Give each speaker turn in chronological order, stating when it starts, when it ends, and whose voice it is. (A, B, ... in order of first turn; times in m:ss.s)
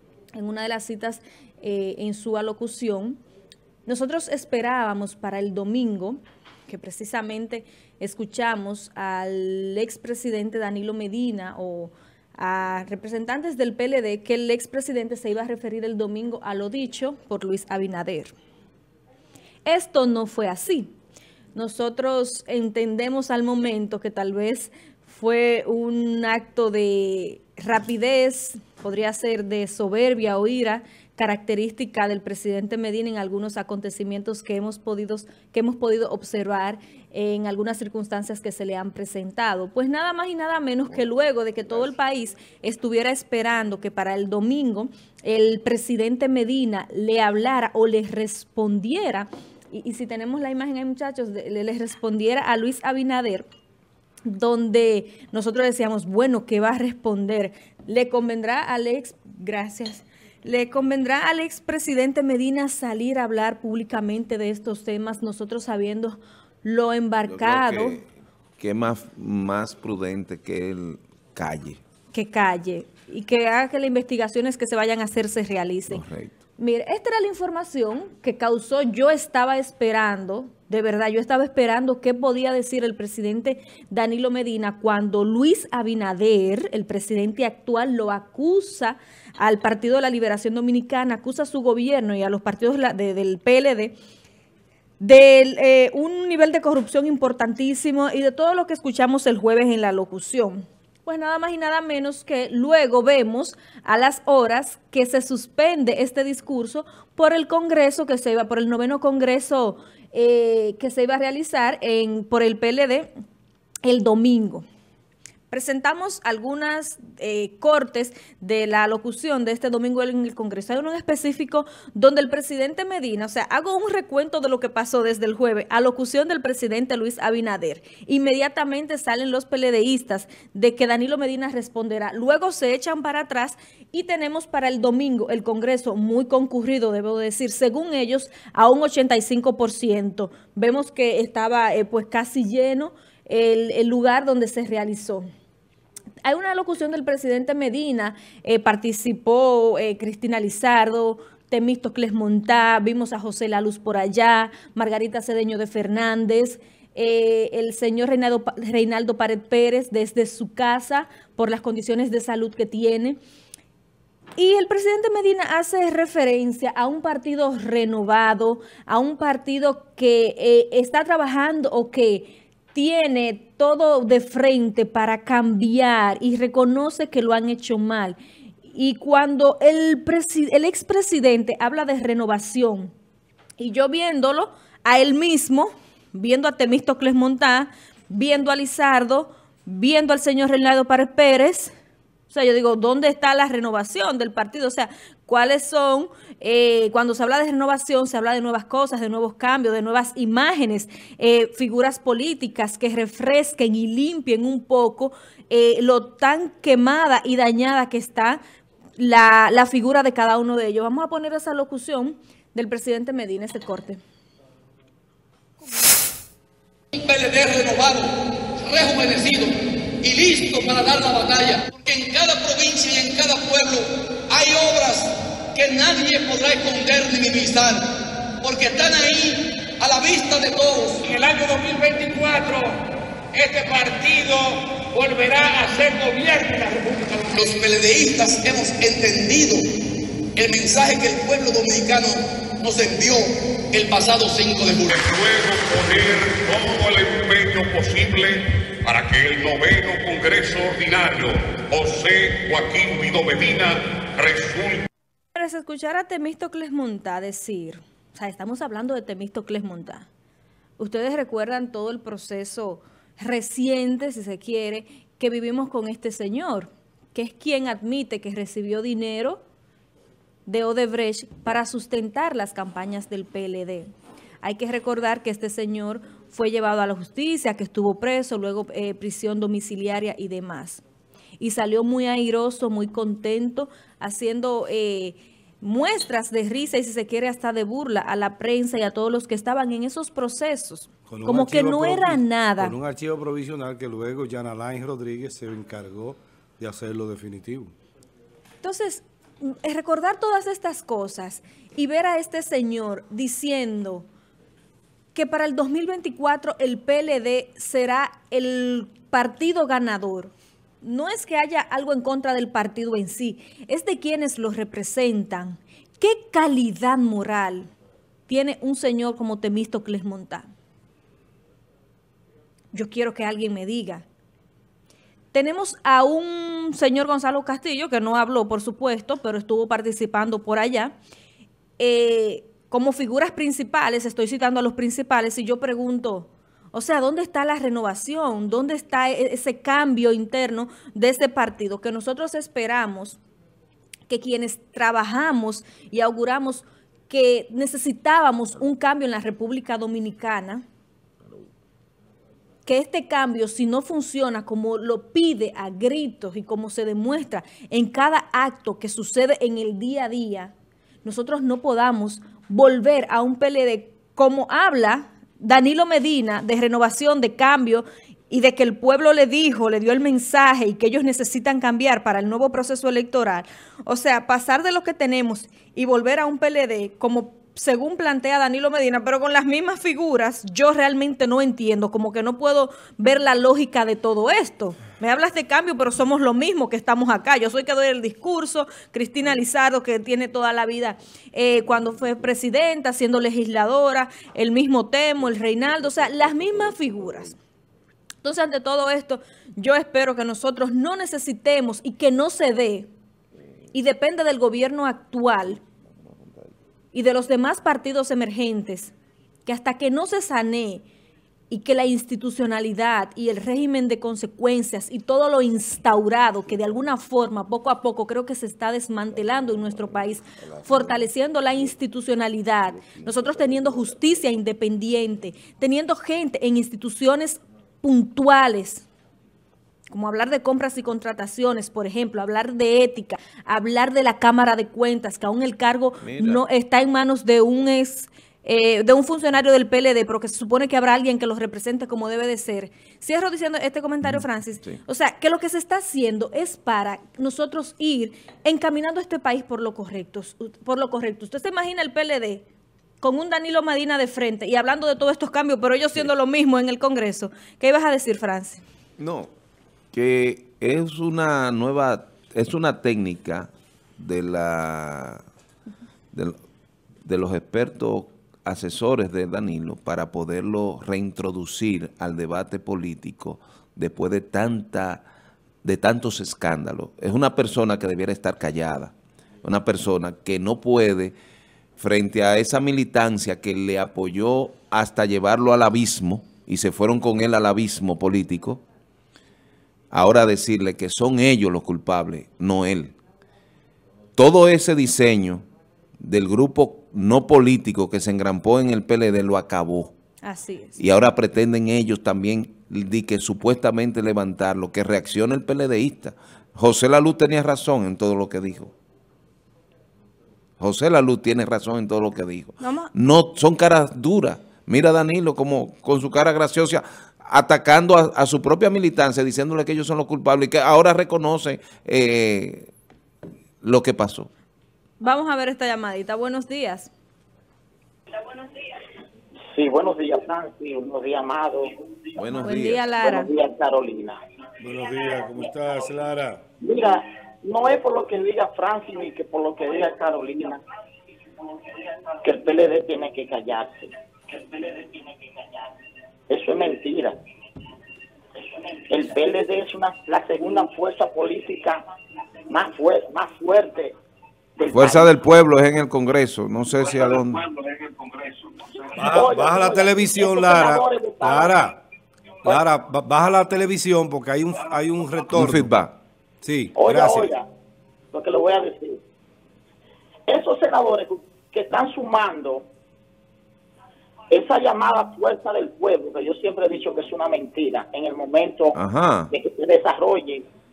0:00.3-0:03.2 A
0:03.8-0:18.3 A
0:19.6-0:20.9 A
0:21.5-0:53.5 A
0:54.2-1:08.0 A
1:07.3-1:08.0 B
1:08.6-1:11.8 B
1:12.1-1:16.0 A
1:15.9-1:16.3 B
1:16.6-1:33.9 A
1:35.0-1:53.1 A
1:53.8-1:54.6 A
1:55.5-2:25.2 A
2:26.2-2:43.2 A
2:44.4-2:58.2 A
2:58.7-3:02.9 A
3:03.6-3:11.7 A
3:12.3-3:28.4 A
3:29.0-3:34.0 A
3:37.0-3:38.1 C
3:38.6-3:39.5 C
3:40.0-3:43.8 C
3:40.8-3:41.2 D
3:41.9-3:43.7 D
3:44.3-3:47.8 C
3:44.3-3:44.8 D
3:45.8-3:46.9 D
3:48.4-3:51.0 C
3:48.8-3:49.1 D
3:50.9-3:52.8 D
3:53.3-3:58.0 D
3:57.3-3:59.6 C
4:00.4-4:04.9 C
4:03.8-4:04.7 D
4:04.9-4:14.8 E
4:15.3-4:20.1 A
4:20.8-4:29.4 A
4:30.4-4:33.9 A
4:34.4-4:40.8 A
4:41.4-4:52.7 A
4:51.1-4:57.7 F
4:58.6-5:04.0 A
5:05.1-5:17.7 A
5:18.3-5:20.5 A
5:22.7-5:24.0 A
5:25.3-5:31.0 A
5:31.8-5:43.2 A
5:44.1-5:50.6 A
5:52.6-6:00.5 A
6:01.0-6:37.4 A
6:38.2-6:42.9 A
6:43.7-6:45.6 A
6:46.9-6:48.9 A
6:49.4-6:50.8 A
6:51.5-7:08.8 A
7:00.4-7:01.1 B
7:02.9-7:03.7 B
7:09.9-7:32.4 A
7:16.0-7:16.4 B
7:24.0-7:24.8 B
7:33.0-7:38.6 A
7:39.0-7:39.3 B
7:39.9-7:45.2 B
7:47.0-7:55.0 B
7:55.6-8:01.1 B
8:01.8-8:08.6 B
8:09.9-8:12.9 B
8:14.2-8:15.4 B
8:16.0-8:19.9 B
8:20.2-8:20.8 A
8:20.8-8:28.7 B
8:30.6-8:42.7 B
8:32.6-8:32.9 A
8:43.6-8:44.3 B
8:45.0-8:46.9 A
8:49.5-8:51.7 G
8:52.2-8:52.8 B
8:52.4-8:53.3 A
8:53.0-8:54.2 G
8:54.6-8:56.4 F
8:56.6-9:00.6 G
9:02.2-9:04.9 G
9:06.3-9:07.2 G
9:08.9-9:11.8 G
9:12.5-9:13.9 G
9:14.6-9:15.1 G
9:14.7-9:17.5 B
9:19.0-9:21.8 F
9:19.0-9:21.5 G
9:22.4-9:25.7 F
9:25.3-9:26.0 B
9:26.4-9:27.3 F
9:26.8-9:27.4 G
9:28.1-9:29.0 G
9:30.3-9:32.7 G
9:34.3-9:38.8 G
9:38.7-9:39.3 B
9:39.3-9:40.4 G